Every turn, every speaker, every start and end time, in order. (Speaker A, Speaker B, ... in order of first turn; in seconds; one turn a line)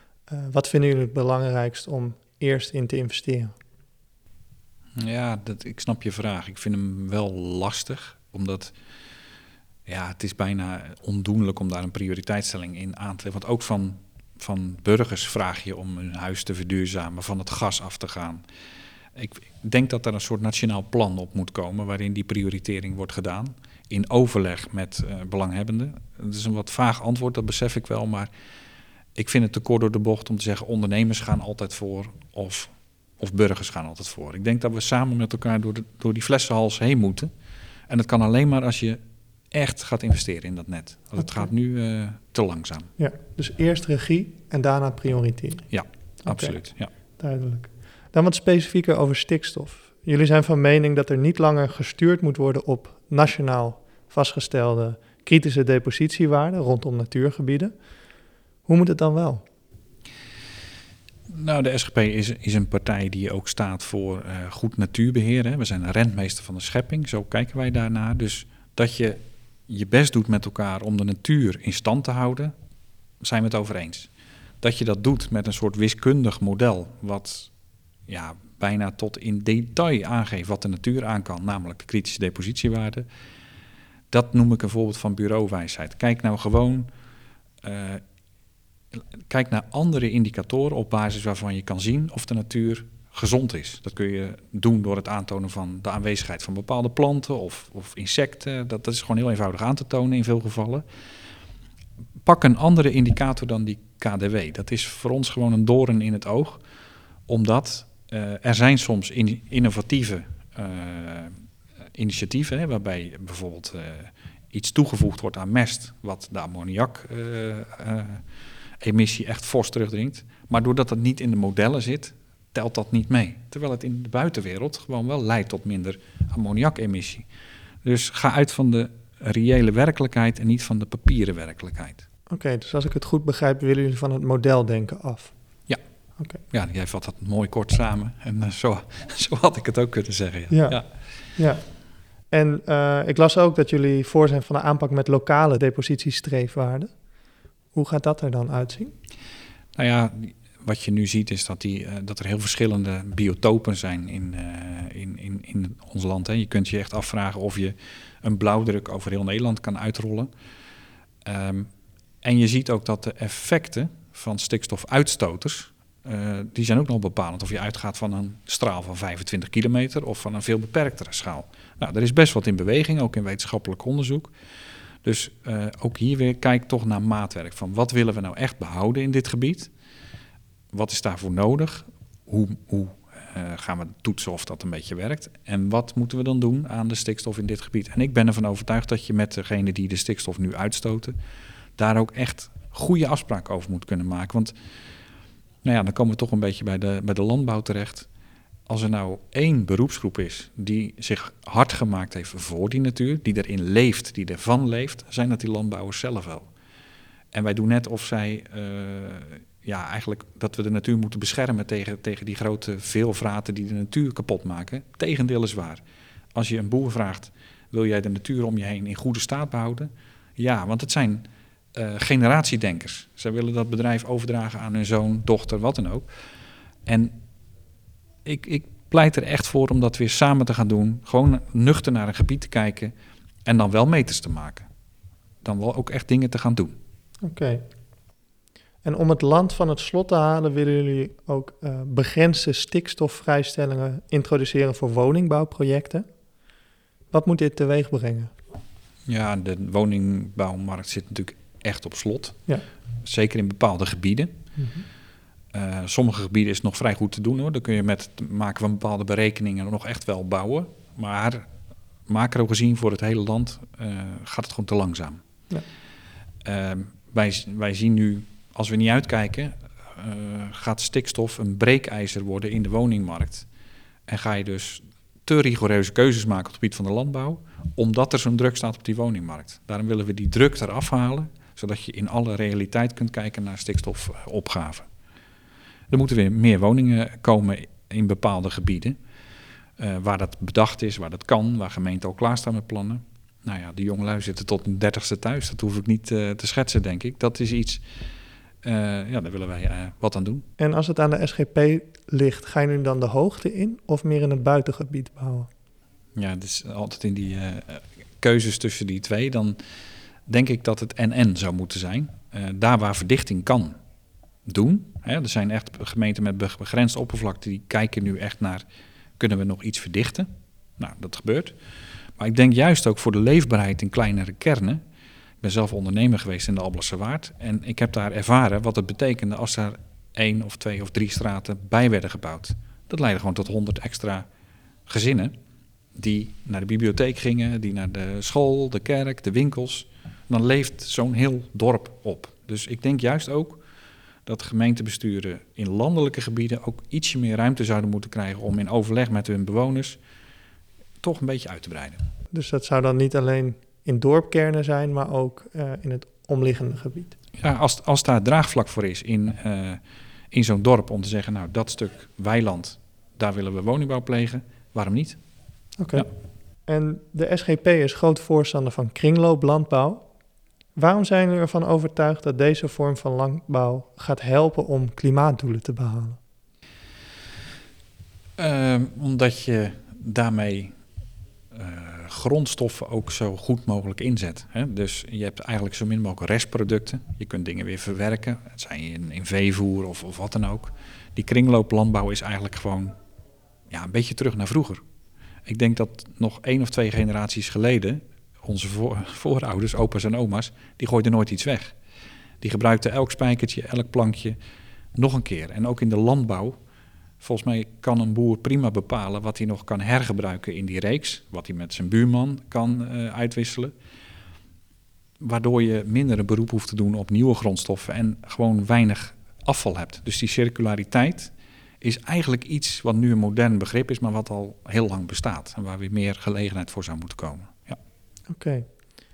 Speaker A: 0.3-3.5
Speaker B: 5.0-8.7
Speaker B: 9.9-18.4
Speaker B: 19.1-28.3
Speaker B: 29.1-37.3
Speaker B: 37.9-39.0
Speaker B: 39.5-42.9
Speaker A: 43.0-45.7
Speaker B: 45.7-46.9
Speaker A: 46.2-46.6
Speaker A: 47.2-57.7
Speaker A: 58.7-59.4
Speaker B: 61.3-72.5
Speaker B: 73.2-74.1
Speaker B: 74.6-77.5
Speaker B: 78.1-83.1
Speaker B: 84.1-86.9
Speaker B: 87.6-88.0
Speaker B: 88.9-100.8
Speaker B: 102.2-106.6
Speaker B: 107.3-111.3
Speaker B: 111.9-118.2
Speaker B: 118.8-127.3
Speaker B: 127.8-132.0
Speaker A: 132.3-135.3
Speaker B: 136.5-140.9
Speaker A: 140.5-140.8
Speaker A: 141.3-141.7
Speaker A: 142.3-146.9
Speaker A: 147.7-148.9
Speaker B: 149.8-160.3
Speaker B: 161.2-161.7
Speaker B: 162.2-174.3
Speaker B: 175.0-179.7
Speaker B: 180.7-191.2
Speaker B: 191.8-194.5
Speaker B: 195.6-198.1
Speaker B: 198.7-206.5
Speaker B: 207.3-215.8
Speaker B: 216.3-226.1
Speaker B: 226.9-227.2
Speaker B: 228.2-232.9
Speaker B: 233.5-234.7
Speaker B: 235.4-236.7
Speaker A: 237.2-237.6
Speaker A: 238.8-246.1
Speaker A: 247.1-248.3
Speaker B: 249.1-252.4
Speaker B: 253.0-254.3
Speaker A: 254.6-254.8
Speaker B: 255.5-261.5
Speaker B: 262.1-265.2
Speaker B: 266.4-273.5
Speaker B: 274.1-284.9
Speaker B: 285.9-289.0
Speaker B: 289.8-297.8
Speaker B: 298.6-300.4
Speaker A: 300.6-305.5
Speaker B: 306.2-309.6
Speaker B: 310.3-313.8
Speaker B: 314.4-318.6
Speaker B: 319.2-321.6
Speaker B: 322.2-324.8
Speaker B: 325.4-334.3
Speaker B: 334.9-335.3
Speaker B: 335.9-343.6
Speaker B: 344.3-350.0
Speaker B: 351.0-352.0
Speaker A: 352.3-357.1
Speaker B: 357.4-359.8
Speaker B: 360.3-365.2
Speaker A: 365.8-366.1
Speaker A: 366.7-370.1
Speaker A: 370.8-376.2
Speaker B: 378.4-380.7
Speaker B: 381.5-392.9
Speaker B: 393.7-394.8
Speaker B: 395.5-401.8
Speaker B: 402.4-404.4
Speaker B: 404.9-406.6
Speaker B: 407.2-413.7
Speaker B: 415.2-427.8
Speaker A: 428.3-428.7